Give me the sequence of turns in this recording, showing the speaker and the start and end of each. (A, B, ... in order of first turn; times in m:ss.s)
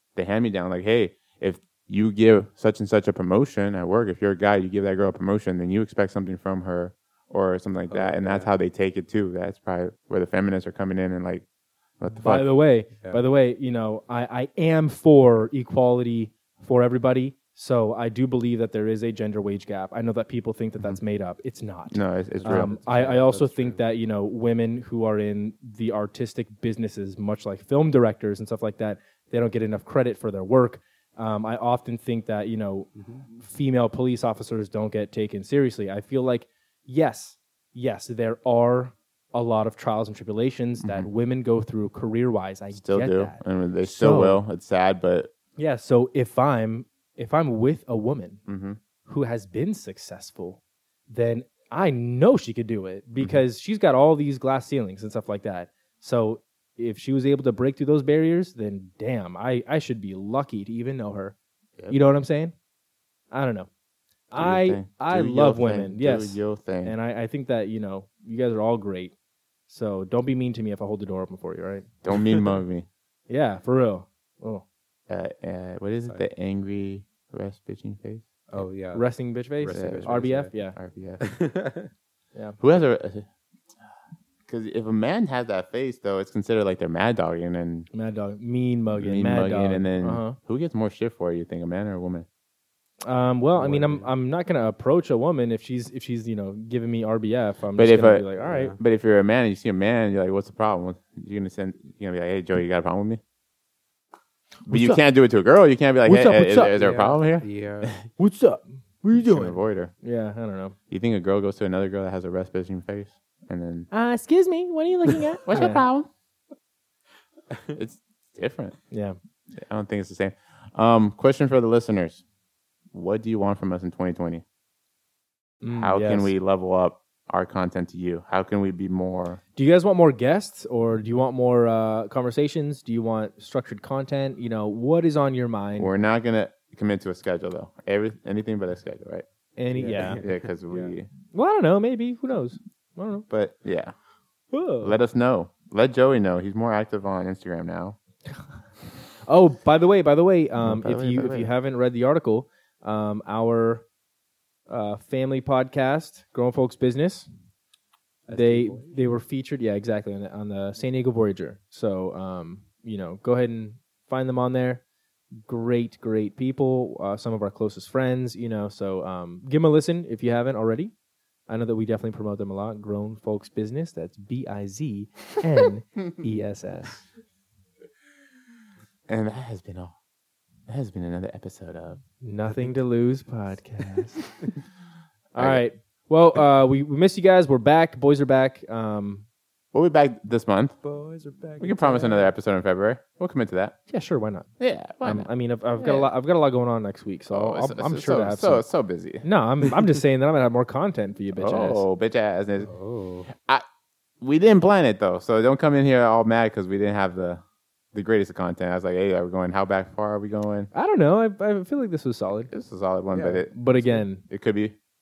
0:00.2-0:11.4 A
0:07.9-0:08.5 B
0:12.0-0:12.5 A
0:12.2-0:44.4 C
0:21.9-0:23.1 A
0:22.4-0:23.8 B
0:40.8-0:41.1 A
0:42.7-0:45.3 A
0:45.6-0:48.4 C
0:48.5-0:48.8 A
0:49.0-1:01.3 C
1:01.9-1:02.5 C
1:03.3-1:03.7 C
1:04.3-1:09.1 C
1:04.3-1:06.9 A
1:09.7-1:12.4 C
1:12.0-1:12.9 A
1:13.3-1:14.6 C
1:15.1-1:18.6 A
1:18.5-1:20.5 B
1:18.9-1:20.8 C
1:19.7-1:21.3 A
1:21.2-1:21.9 B
1:22.3-1:22.6 C
1:22.6-1:23.3 A
1:24.5-1:27.9 A
1:27.9-1:30.4 C
1:28.9-1:32.2 A
1:33.0-1:38.7 C
1:33.6-1:34.1 B
1:37.8-1:43.2 A
1:38.4-1:38.8 B
1:44.6-1:45.0 C
1:44.7-1:47.9 A
1:46.0-1:47.2 C
1:47.4-1:47.9 B
1:48.2-1:50.8 C
1:49.1-1:49.9 A
1:50.9-1:53.9 A
1:53.9-1:55.8 C
1:55.4-1:56.1 A
1:57.7-1:58.8 A
1:58.9-1:59.2 C
1:59.5-2:02.2 A
2:02.9-2:04.4 A
2:05.6-2:06.3 C
2:05.8-2:09.4 A
2:09.6-2:15.9 C
2:15.8-2:19.2 A
2:19.6-2:20.2 C
2:19.7-2:20.3 B
2:19.9-2:21.1 A
2:21.3-2:23.2 C
2:23.3-2:23.9 A
2:24.5-2:25.0 C
2:24.8-2:28.0 A
2:29.2-2:33.8 C
2:30.6-2:31.5 A
2:34.7-2:37.3 C
2:38.3-2:39.1 B
2:38.3-2:44.8 C
2:45.4-2:50.9 C
2:51.5-2:57.0 C
2:59.1-2:59.9 A
3:00.7-3:02.0 A
3:02.2-3:04.4 C
3:05.3-3:09.2 C
3:05.4-3:05.6 A
3:09.7-3:10.8 A
3:10.8-3:12.3 B
3:11.6-3:13.7 A
3:13.9-3:14.5 C
3:14.6-3:16.1 A
3:15.0-3:18.6 C
3:17.3-3:19.2 A
3:19.2-3:21.8 C
3:21.4-3:22.7 A
3:22.6-3:23.3 B
3:23.3-3:23.6 A
3:24.2-3:27.4 A
3:27.9-3:30.7 A
3:30.7-3:32.5 C
3:32.5-3:34.7 A
3:33.1-3:33.4 B
3:33.5-3:34.2 C